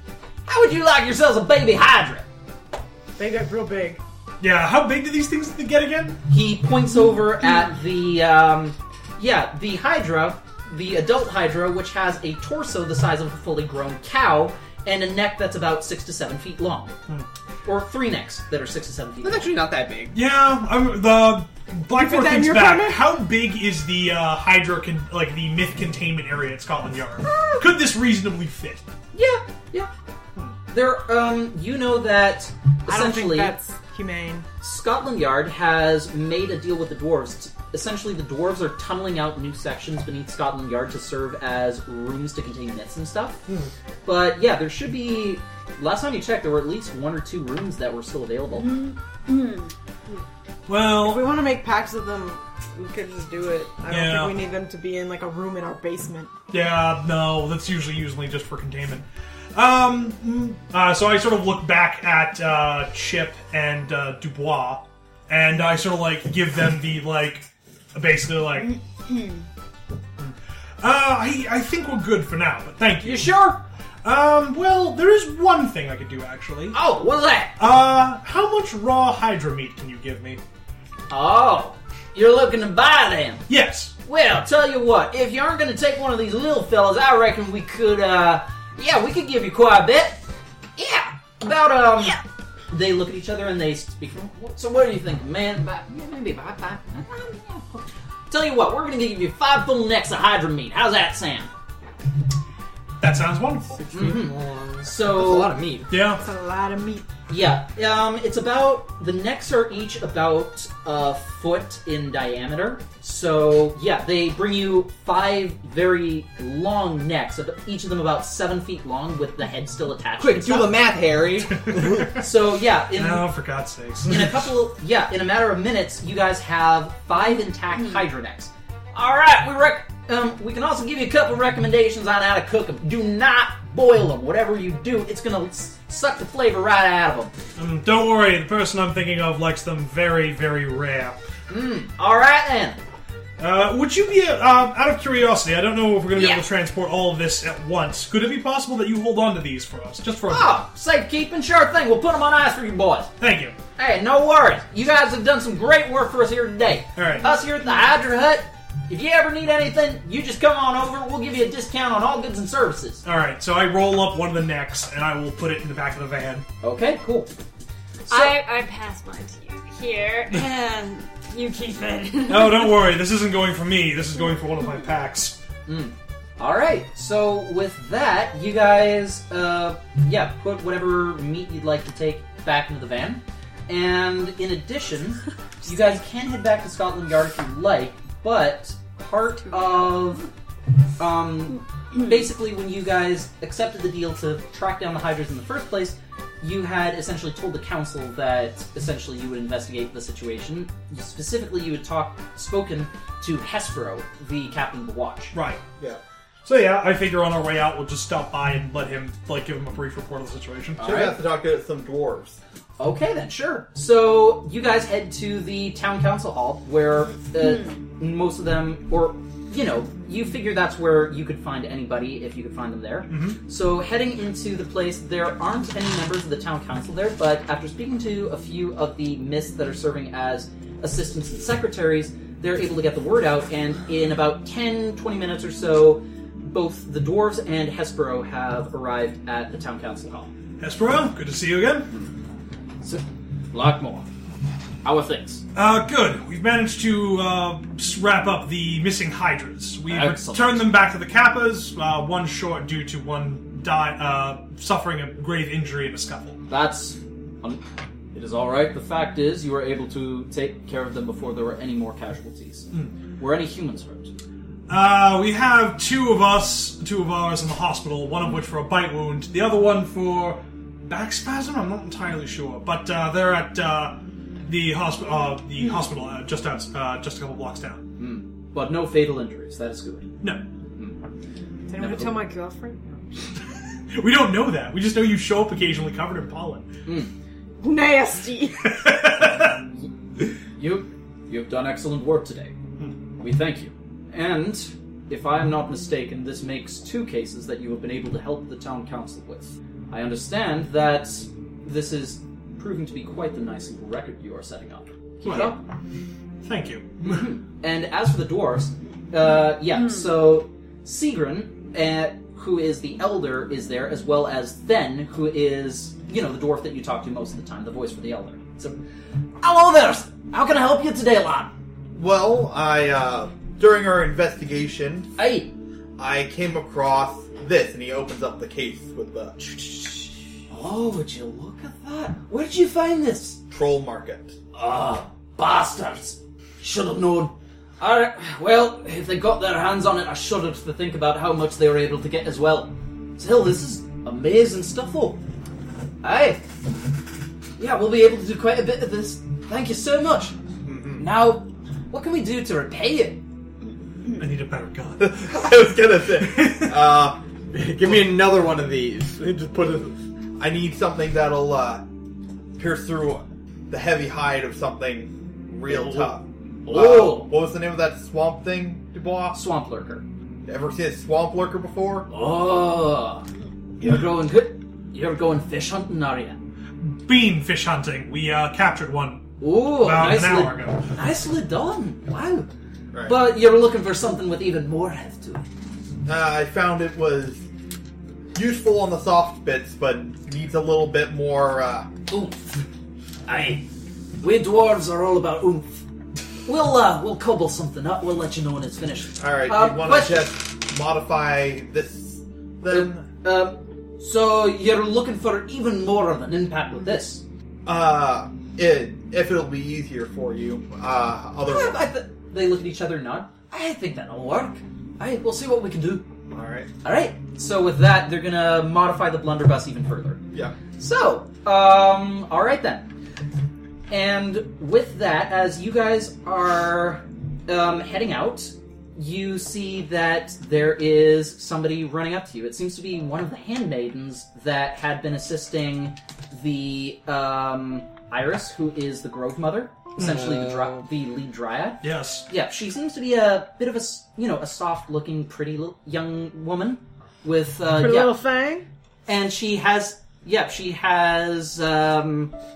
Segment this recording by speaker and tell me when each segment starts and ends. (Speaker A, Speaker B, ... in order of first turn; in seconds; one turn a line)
Speaker A: 0.5-2.2
Speaker B: 3.2-4.0
Speaker C: 4.4-6.2
Speaker A: 6.3-17.0
Speaker A: 17.6-19.5
Speaker D: 19.2-20.1
Speaker C: 20.1-28.8
Speaker B: 21.9-23.1
Speaker A: 29.1-29.9
Speaker A: 30.7-33.5
Speaker B: 32.9-34.5
Speaker A: 34.6-43.4
Speaker A: 44.0-48.8
Speaker E: 48.6-49.7
Speaker C: 50.7-51.3
Speaker B: 50.9-56.3
Speaker C: 53.9-54.4
Speaker C: 56.5-68.8
Speaker E: 69.1-69.4
Speaker C: 70.2-73.4
Speaker A: 73.0-73.6
Speaker C: 74.0-76.8
Speaker A: 76.7-77.5
Speaker C: 77.6-80.4
Speaker A: 81.1-83.4
Speaker C: 83.5-83.9
Speaker A: 84.0-90.2
Speaker A: 90.8-101.5
Speaker C: 103.0-103.8
Speaker D: 103.7-106.0
Speaker A: 103.9-105.5
Speaker C: 105.9-106.2
Speaker B: 106.2-107.1
Speaker A: 107.3-120.7
Speaker D: 120.2-122.1
Speaker C: 121.5-122.2
Speaker A: 122.1-123.3
Speaker C: 122.9-124.4
Speaker A: 124.0-137.3
Speaker C: 137.6-141.2
Speaker A: 141.5-142.8
Speaker C: 143.4-150.6
Speaker A: 146.1-146.4
Speaker A: 150.3-153.1
Speaker C: 153.2-153.6
Speaker A: 153.8-163.0
Speaker C: 156.9-157.3
Speaker C: 163.0-166.5
Speaker A: 166.6-167.3
Speaker E: 168.1-172.8
Speaker A: 168.1-168.4
Speaker C: 172.3-175.4
Speaker A: 175.7-190.3
Speaker A: 191.0-205.3
Speaker C: 205.3-205.6
Speaker C: 206.4-211.1
Speaker A: 210.8-211.1
Speaker F: 210.8-212.4
Speaker A: 212.8-240.3
Speaker C: 223.1-223.4
Speaker C: 240.6-241.9
Speaker A: 242.8-244.1
Speaker A: 244.8-245.4
Speaker C: 245.5-256.4
Speaker A: 249.9-250.7
Speaker A: 256.5-257.6
Speaker A: 258.1-264.1
Speaker C: 264.7-277.8
Speaker A: 278.0-280.1
Speaker B: 281.7-282.9
Speaker A: 281.8-282.2
Speaker C: 283.9-286.7
Speaker A: 286.9-287.1
Speaker B: 287.6-288.8
Speaker C: 288.6-289.6
Speaker A: 290.6-292.5
Speaker A: 293.2-305.6
Speaker C: 305.2-305.6
Speaker C: 306.4-307.3
Speaker A: 307.0-318.8
Speaker A: 319.4-321.5
Speaker F: 321.9-325.1
Speaker A: 325.2-325.5
Speaker F: 326.0-330.1
Speaker A: 330.5-333.4
Speaker F: 333.5-334.4
Speaker A: 334.5-345.2
Speaker A: 346.0-346.4
Speaker A: 347.6-350.3
Speaker F: 350.6-351.1
Speaker A: 351.0-353.2
Speaker C: 354.1-356.8
Speaker F: 355.0-357.2
Speaker D: 357.5-359.9
Speaker F: 360.4-361.8
Speaker F: 362.6-369.4
Speaker A: 365.7-366.1
Speaker A: 366.6-367.3
Speaker A: 369.3-370.0
Speaker F: 370.4-372.1
Speaker A: 372.1-373.2
Speaker A: 373.8-376.4
Speaker C: 376.8-380.9
Speaker A: 379.4-382.5
Speaker F: 382.9-383.2
Speaker A: 383.0-385.5
Speaker F: 386.1-387.4
Speaker F: 388.3-391.9
Speaker A: 392.1-392.6
Speaker A: 393.2-393.6
Speaker A: 394.2-395.8
Speaker A: 396.4-400.3
Speaker F: 399.2-403.1
Speaker A: 402.7-407.2
Speaker F: 407.6-411.8
Speaker A: 411.4-416.1
Speaker F: 416.3-416.7
Speaker A: 416.8-420.2
Speaker A: 420.8-422.9
Speaker A: 423.9-448.2
Speaker D: 440.0-440.6
Speaker C: 441.8-442.2
Speaker B: 447.7-448.7
Speaker A: 449.1-452.3